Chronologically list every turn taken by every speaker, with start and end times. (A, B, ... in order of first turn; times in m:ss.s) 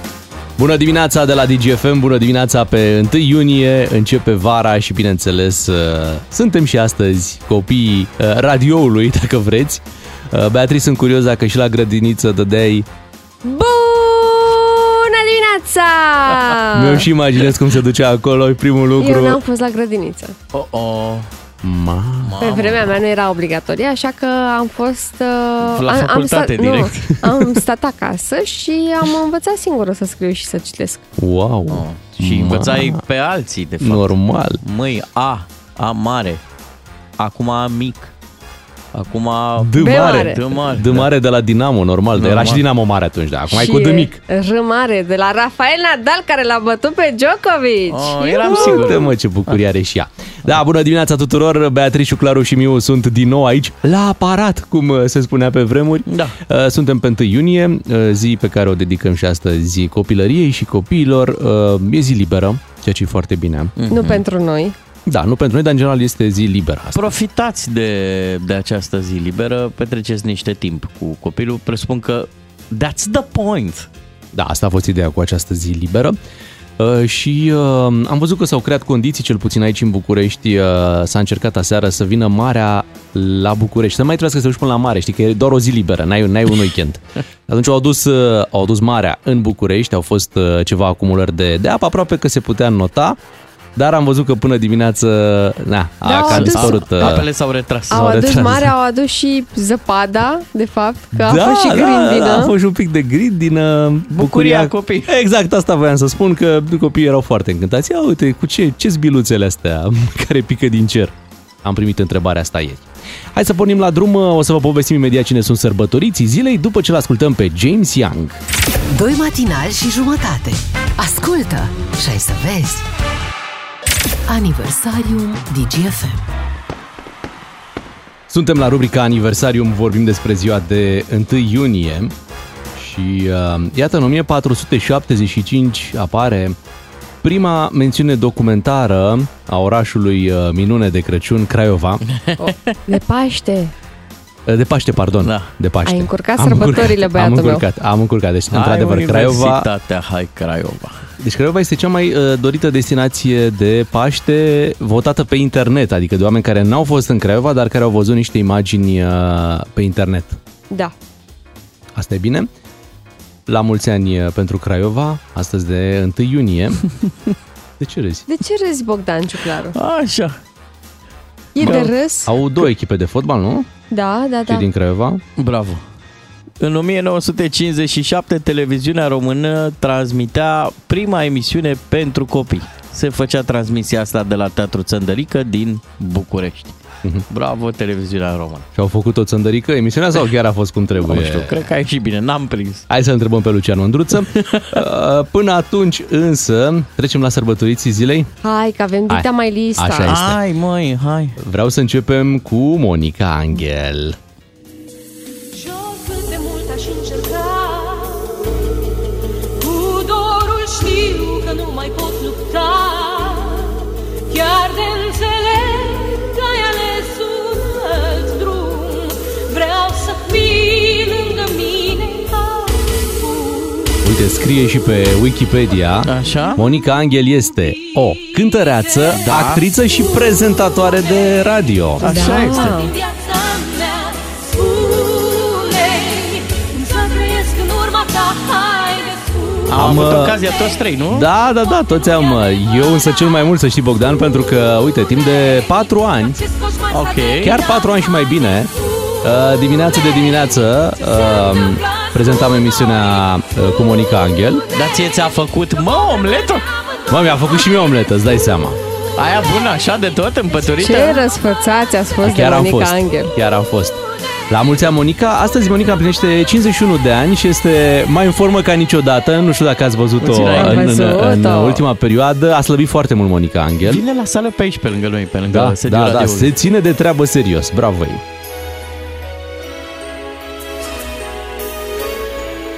0:00.6-0:12.9 A
0:13.4-0:17.1 B
0:16.7-0:19.4 A
0:19.0-0:20.4 B
0:20.5-0:21.3 C
0:21.6-0:22.4 A
0:22.2-0:22.9 C
0:22.4-0:31.0 B
0:25.7-0:27.3 C
0:31.2-0:33.0 A
0:31.7-0:36.4 C
0:33.8-0:34.6 A
0:37.2-0:38.1 C
0:38.9-0:41.1 C
0:39.6-0:44.2 A
0:39.8-0:40.4 B
0:42.1-0:42.6 C
0:43.5-0:48.8 B
0:47.9-0:49.6 C
0:48.4-1:03.7 A
0:56.1-0:56.4 C
1:03.8-1:04.2 C
1:03.9-1:04.7 B
1:05.1-1:07.1 A
1:06.9-1:13.9 C
1:14.3-1:16.2 A
1:16.8-1:33.2 A
1:33.8-1:37.3 A
1:36.0-1:36.8 B
1:36.1-1:38.5 C
1:37.9-1:38.7 A
1:37.9-1:42.5 B
1:41.1-1:51.1 A
1:44.1-1:45.1 C
1:51.6-1:58.4 A
1:58.9-2:02.8 D
2:04.3-2:06.2 D
2:08.3-2:12.1 A
2:12.8-2:16.6 A
2:17.2-2:22.0 A
2:22.1-2:22.4 C
2:22.4-2:23.7 B
2:24.4-2:29.7 A
2:25.2-2:25.5 C
2:25.8-2:27.6 B
2:28.5-2:31.0 C
2:31.2-2:40.4 A
2:41.9-2:42.5 A
2:43.5-2:46.8 A
2:47.8-2:48.2 A
2:48.3-2:49.8 B
2:49.7-2:50.4 C
2:51.5-2:52.3 B
2:51.6-2:51.9 C
2:51.6-2:53.7 A
2:53.9-2:54.7 B
2:54.5-2:55.2 A
2:55.4-2:55.8 C
2:56.6-3:06.8 C
3:07.3-3:08.7 C
3:08.7-3:11.7 A
3:11.0-3:12.8 C
3:12.9-3:18.3 A
3:14.3-3:14.7 C
3:18.4-3:20.1 B
3:19.1-3:20.4 A
3:20.0-3:21.4 C
3:21.4-3:24.2 A
3:25.5-3:28.4 E
3:29.6-3:44.0 E
3:44.0-3:52.0 A
3:46.0-3:46.6 C
3:49.1-3:49.6 C
3:52.0-3:52.8 C
3:52.0-3:52.9 B
3:52.4-3:59.7 E
3:59.7-4:01.3 C
3:59.7-4:00.4 A
4:01.1-4:06.4 A
4:06.4-4:07.9 E
4:06.9-4:07.6 C
4:07.4-4:14.6 A
4:11.1-4:12.9 E
4:14.7-4:16.6 C
4:17.1-4:18.8 A
4:19.2-4:21.2 C
4:20.8-4:23.3 B
4:22.2-4:24.0 A
4:24.5-4:34.0 A
4:30.2-4:31.0 C
4:30.6-4:31.8 B
4:33.8-4:36.5 C
4:35.5-4:38.2 A